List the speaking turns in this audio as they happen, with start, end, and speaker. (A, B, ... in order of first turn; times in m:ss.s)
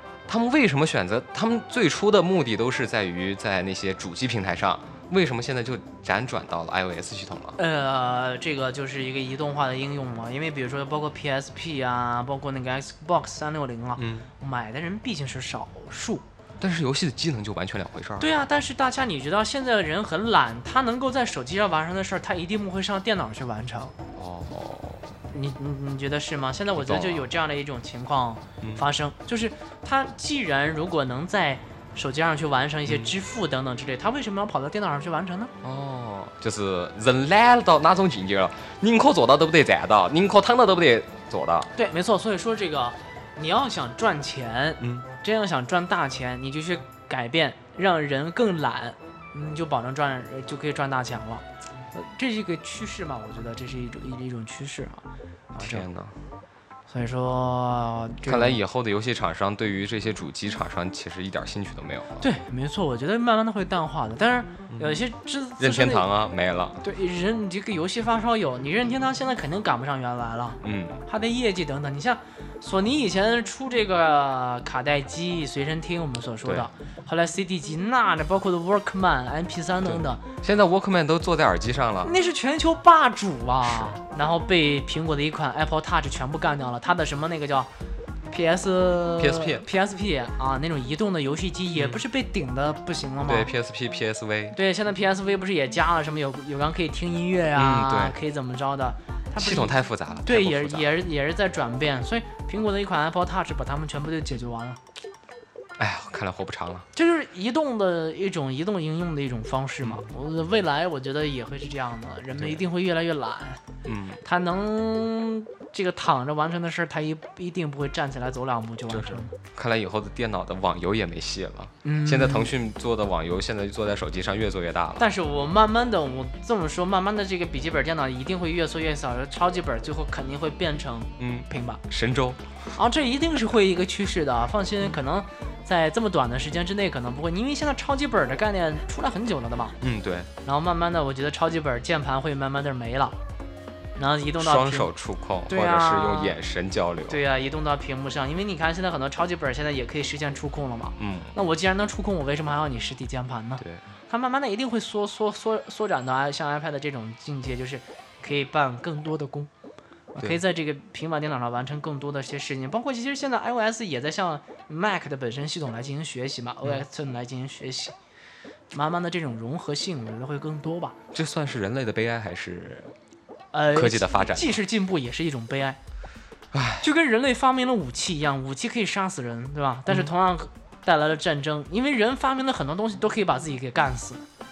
0:00.3-0:07.6 A
0:07.6-0:16.2 B
0:14.0-0:14.3 A
0:16.6-0:18.3 A
0:18.2-0:24.0 B
0:24.1-0:25.1 A
0:25.3-0:35.5 B
0:26.7-0:27.3 A
0:32.9-0:33.1 A
0:35.6-0:41.7 A
0:41.8-0:55.9 B
0:44.8-0:45.1 A
0:55.6-0:56.1 A
0:56.9-0:58.6 B
0:58.2-1:02.2 A
1:02.2-1:06.1 B
1:04.7-1:05.0 A
1:05.6-1:06.8 A
1:06.8-1:20.2 B
1:10.6-1:11.0 A
1:19.9-1:22.1 A
1:22.0-1:27.7 B
1:23.6-1:24.0 A
1:28.3-1:33.5 B
1:29.2-1:29.6 A
1:31.7-1:32.0 A
1:33.3-1:34.6 A
1:34.5-1:44.8 B
1:37.6-1:38.2 A
1:39.4-1:40.9 A
1:45.8-1:46.9 A
1:46.9-1:53.6 B
1:53.8-1:54.2 A
1:54.2-1:59.3 B
1:58.9-2:05.0 A
2:01.8-2:02.5 B
2:05.0-2:11.8 B
2:11.2-2:12.4 A
2:12.7-2:19.8 B
2:19.8-2:20.3 A
2:20.4-2:23.2 B
2:24.0-2:24.9 B
2:24.4-2:27.2 A
2:25.5-2:26.3 B
2:27.1-2:39.5 B
2:31.0-2:31.4 A
2:40.1-2:48.0 B
2:48.7-2:51.0 B
2:51.1-2:52.9 A
2:53.5-2:55.8 B
2:53.7-2:54.6 A
2:56.5-2:56.9 A
2:56.8-3:04.2 B